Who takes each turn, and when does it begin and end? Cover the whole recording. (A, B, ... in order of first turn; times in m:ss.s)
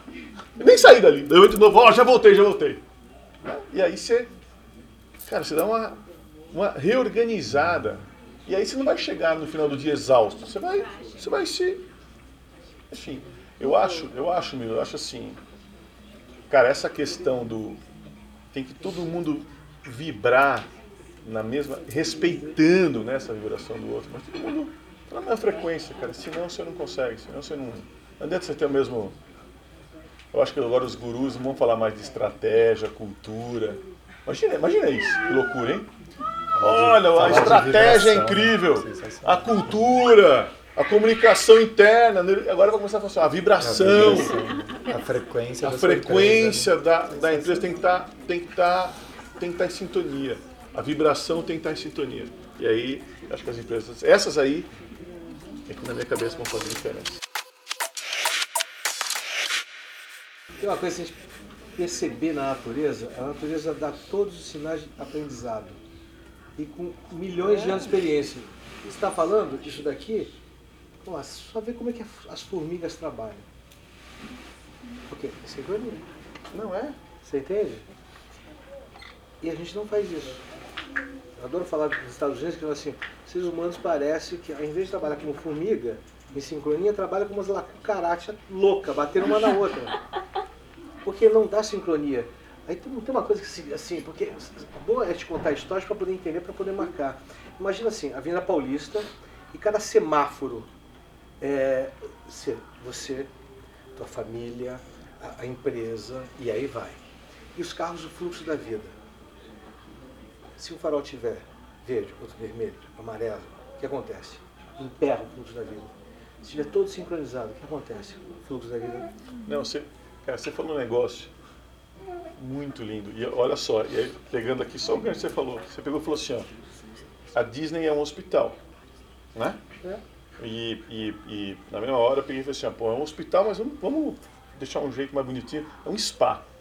0:00.6-0:02.8 A
0:03.4-0:04.3 A
0:05.2-0:11.8 A
0:12.9-0:15.4 A
0:16.5-0:17.8 A
0:18.5-0:20.7 A
0:21.2-0:29.1 A
0:30.3-0:35.9 A
0:36.6-0:39.7 B
0:36.6-0:44.4 A
0:43.6-0:47.8 B
0:45.6-0:54.7 A
0:55.7-0:57.1 A
1:00.6-1:01.2 C
1:01.7-1:05.8 C
1:06.6-1:10.3 C
1:11.0-1:13.4 C
1:15.1-1:16.1 C
1:16.5-1:17.0 A
1:17.2-1:17.9 C
1:19.4-1:20.4 C
1:21.4-1:29.9 C
1:31.0-1:40.7 C
1:41.4-1:43.3 C
1:44.0-1:47.0 C
1:47.5-1:49.0 C
1:50.6-1:59.1 C
1:59.4-2:01.3 A
2:02.4-2:06.5 A
2:07.3-2:08.6 A
2:09.3-2:09.6 A
2:10.4-2:16.4 A